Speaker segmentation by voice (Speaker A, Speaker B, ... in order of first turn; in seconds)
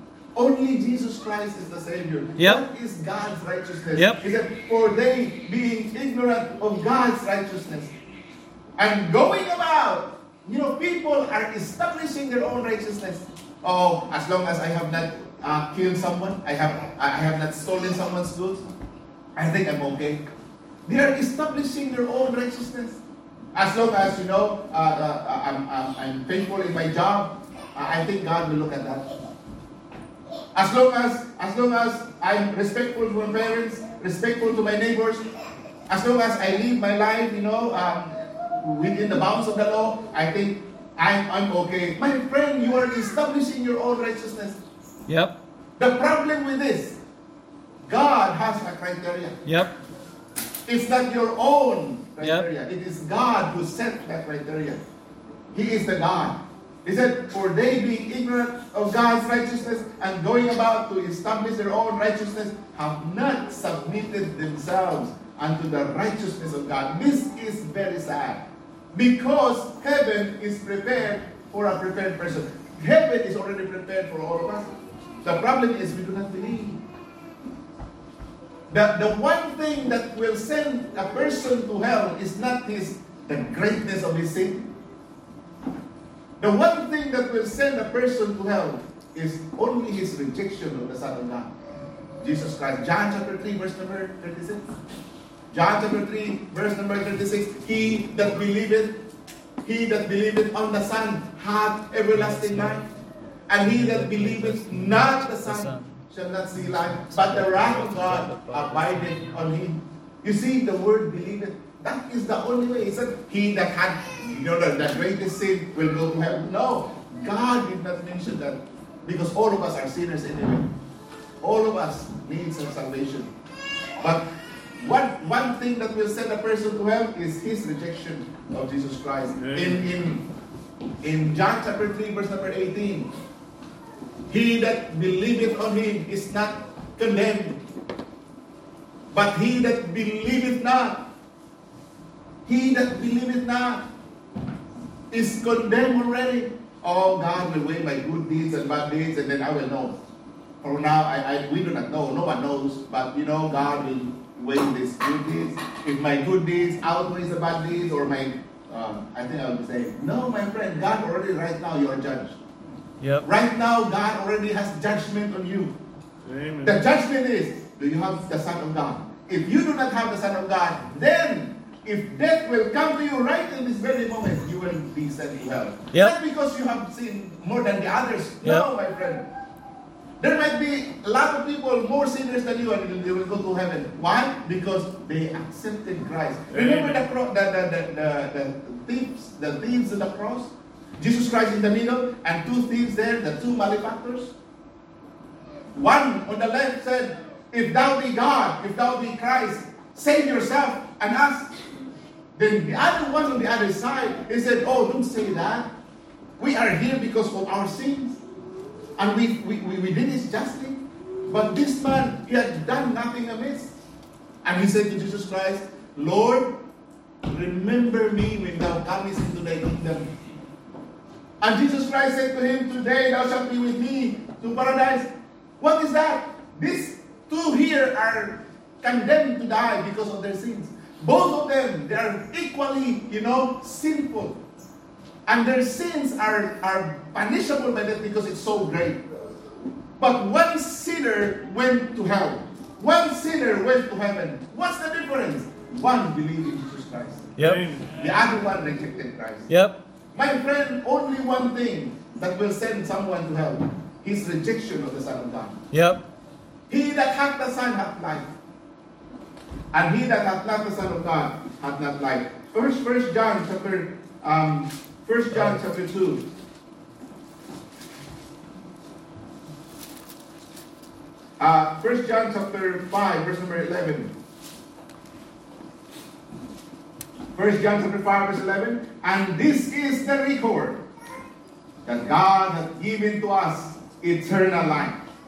Speaker A: 0.3-7.9, 8.8-18.6, 19.4-20.2, 20.9-23.0, 23.5-29.2, 30.5-35.2, 35.9-44.6, 45.8-47.0, 47.9-49.4, 50.7-54.8, 55.5-74.7, 75.2-76.8, 78.7-84.7, 86.4-91.5, 92.2-94.7, 95.5-99.0, 99.6-102.9, 103.5-120.7, 121.4-123.3, 124.0-130.3, 131.0-133.1, 134.3-137.6, 139.1-141.1, 142.4-143.9, 145.1-150.0, 150.6-162.4, 163.2-165.8, 166.6-179.3, 180.2-194.3, 195.7-201.5, 202.4-205.7, 206.4-208.2, 209.0-213.7, 214.4-216.5, 217.3-220.1, 221.4-234.4, 235.3-239.0, 240.0-247.3, 247.9-249.5, 250.1-255.6, 256.7-258.3, 259.7-266.3, 271.4-274.1, 277.4-280.8, 281.9-285.0
Speaker B: 2.4-2.6, 3.9-4.2, 45.1-45.4, 49.5-49.8, 52.2-52.5, 102.2-102.8, 103.7-105.9, 107.1-109.2, 163.0-163.2, 247.4-247.6, 249.5-249.8, 255.7-256.1
Speaker C: 129.4-129.8, 166.2-166.8, 186.5-187.0, 247.4-247.9